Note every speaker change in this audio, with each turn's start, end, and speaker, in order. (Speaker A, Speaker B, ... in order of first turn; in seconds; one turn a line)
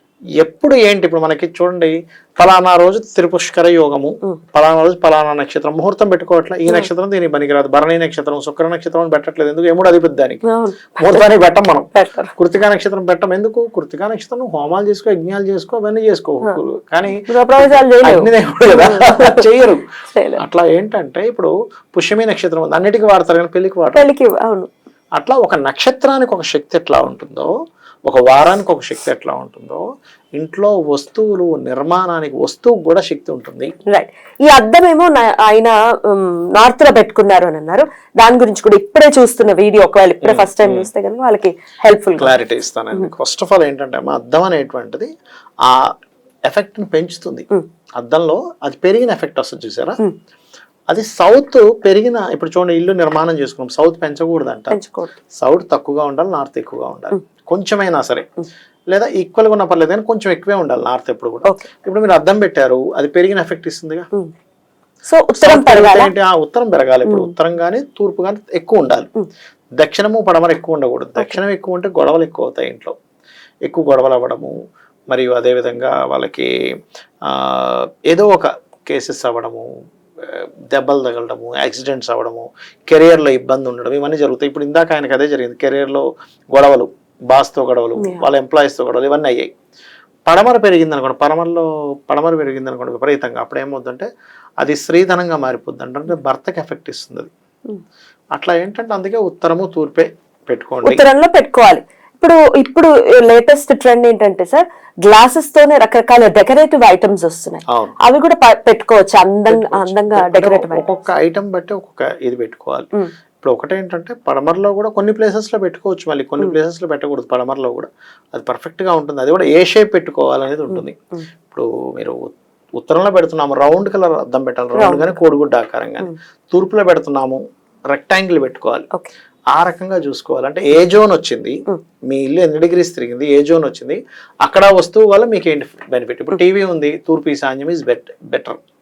Speaker A: 0.4-10.4
Speaker B: 10.5-11.3
Speaker A: 11.0-19.8
Speaker B: 11.9-12.3
Speaker B: 17.2-19.5
Speaker B: 20.1-20.4
Speaker A: 20.4-24.1
Speaker B: 23.9-24.7
Speaker A: 25.2-27.5
Speaker A: 28.1-29.8
Speaker A: 30.4-33.7
Speaker B: 33.9-42.4
Speaker A: 40.2-40.9
Speaker A: 42.2-45.1
Speaker A: 45.6-45.9
Speaker A: 46.5-50.0
Speaker A: 50.9-54.8
Speaker B: 54.7-55.1
Speaker A: 55.4-58.3
Speaker A: 58.9-64.1
Speaker B: 65.0-66.1
Speaker A: 65.4-69.1
Speaker B: 67.0-67.3
Speaker A: 69.8-73.0
Speaker A: 73.7-74.5
Speaker A: 75.1-76.5
Speaker A: 77.2-79.7
Speaker A: 80.2-89.5
Speaker B: 88.0-88.2
Speaker A: 90.2-94.1
Speaker A: 94.6-97.3
Speaker A: 98.3-101.0
Speaker B: 100.8-110.8
Speaker A: 107.7-108.0
Speaker A: 109.5-112.9
Speaker A: 113.4-121.0
Speaker B: 120.7-121.2
Speaker A: 121.5-128.9
Speaker B: 124.8-125.2
Speaker A: 129.5-138.6